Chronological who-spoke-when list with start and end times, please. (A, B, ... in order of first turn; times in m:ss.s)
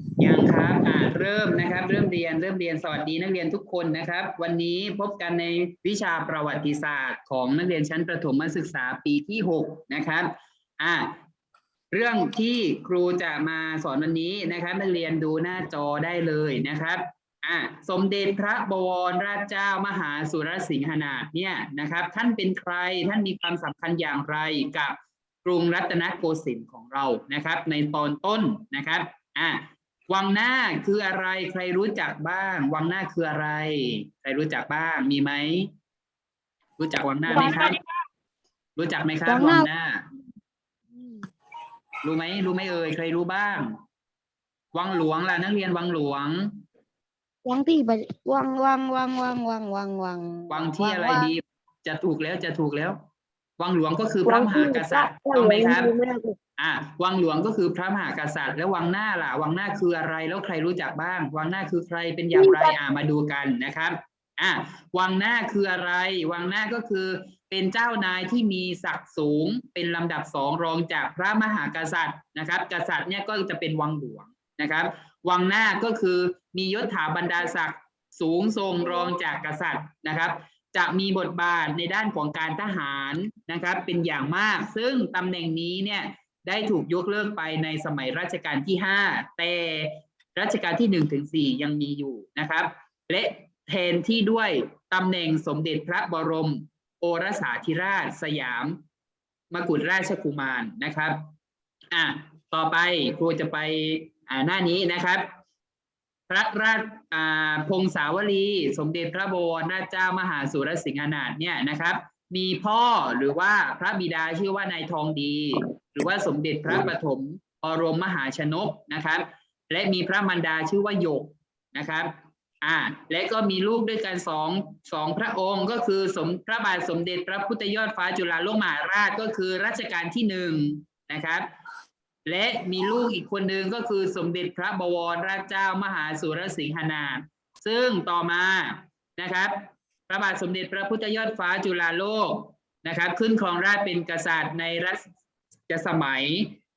0:00.2-0:11.2 A
0:11.9-0:35.7 A
0:36.8-0:37.8 A
0:37.3-0:37.8 B
0:38.8-0:40.0 A
0:39.2-0:39.7 B
0:40.9-0:41.2 B
0:42.0-0:43.8 A
0:44.7-0:46.6 A
0:47.4-0:51.3 B
0:50.5-0:53.0 A
0:53.6-0:55.9 A
0:54.2-0:56.4 B
0:56.6-1:38.8 A
1:02.3-1:02.8 B
1:39.5-1:41.3 A
1:41.9-1:45.2 A
1:46.3-2:11.5 A
2:12.2-2:25.1 A
2:25.7-2:26.6 A